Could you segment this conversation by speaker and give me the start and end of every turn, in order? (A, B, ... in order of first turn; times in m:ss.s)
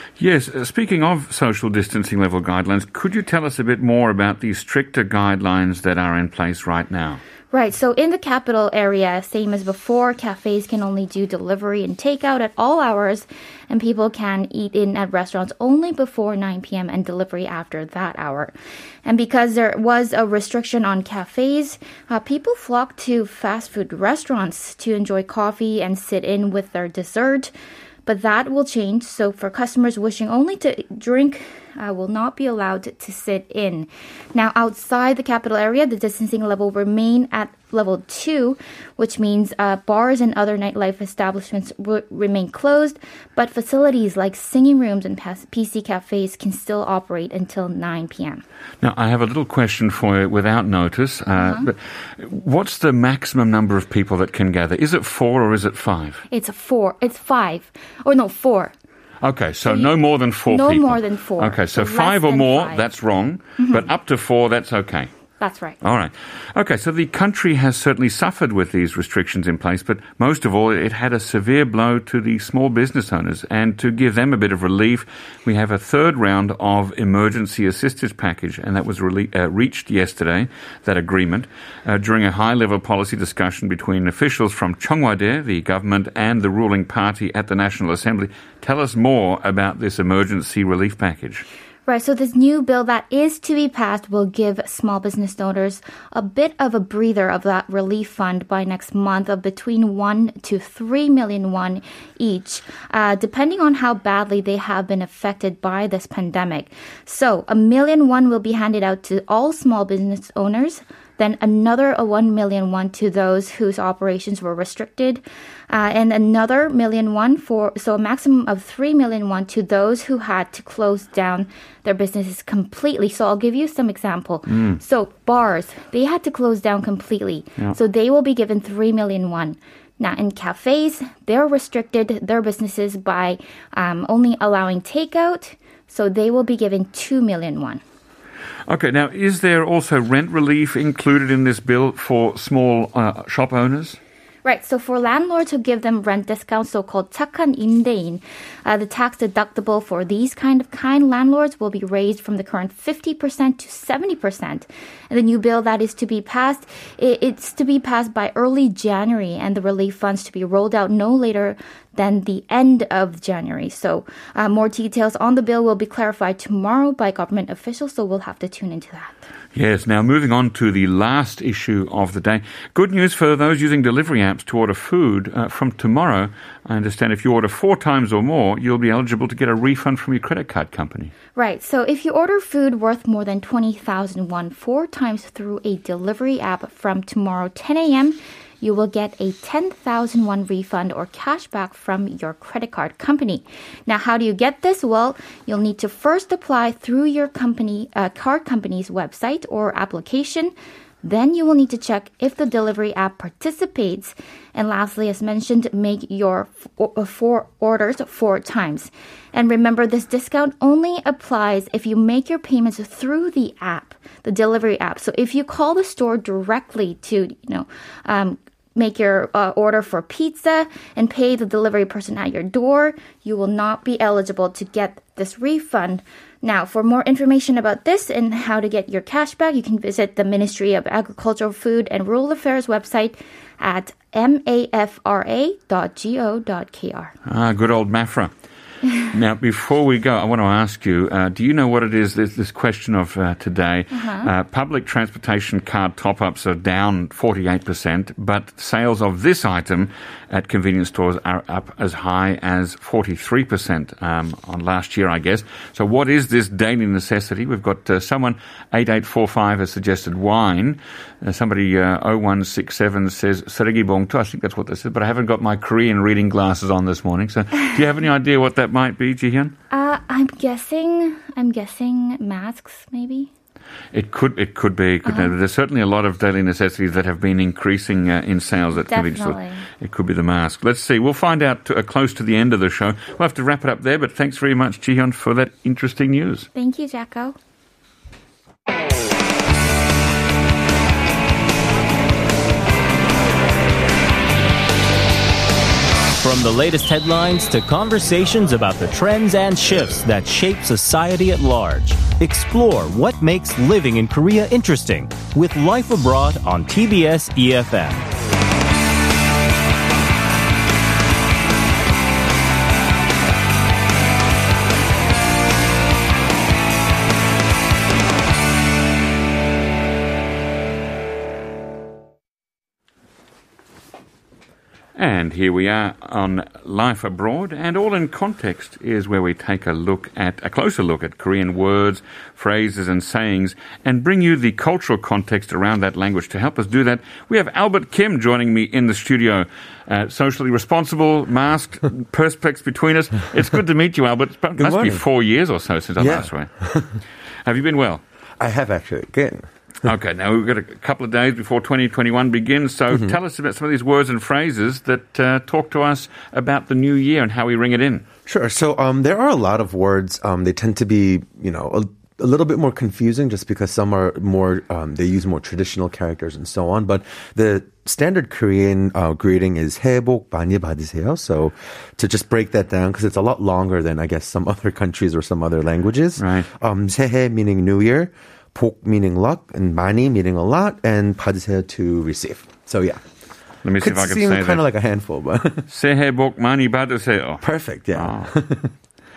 0:00.2-0:07.2 A
0:07.5-0:18.5 B
0:19.0-0:27.5 B
0:28.0-0:48.4 B
0:48.8-0:56.2 A
0:51.4-0:51.7 B
0:56.3-0:58.7 B
0:59.2-1:05.1 A
0:59.6-0:59.9 B
1:00.5-1:02.8 B
1:03.6-1:03.9 B
1:05.4-1:05.8 B
1:05.8-1:31.4 A
1:31.9-2:17.8 B
2:04.5-2:04.8 A
2:18.7-2:24.0 A
2:24.4-2:49.2 B
2:49.5-3:01.1 A
3:01.4-3:57.1 B
3:57.2-3:58.3 A
3:59.0-4:29.5 A
4:03.9-4:04.3 B
4:29.7-4:33.3 B
4:33.9-4:46.5 A
4:35.0-4:35.3 B
4:38.9-4:39.7 B
4:46.5-4:47.4 B
4:56.2-5:08.1 C
5:24.9-5:46.5 A
5:44.6-5:45.0 D
5:46.0-5:47.0 D
5:47.4-5:48.0 A
5:48.4-5:49.5 D
5:49.8-5:58.0 A
5:58.2-6:23.0 D
6:16.2-6:16.5 A
6:23.6-6:24.6 A
6:23.8-6:25.7 D
6:25.7-6:28.3 A
6:27.4-6:28.7 D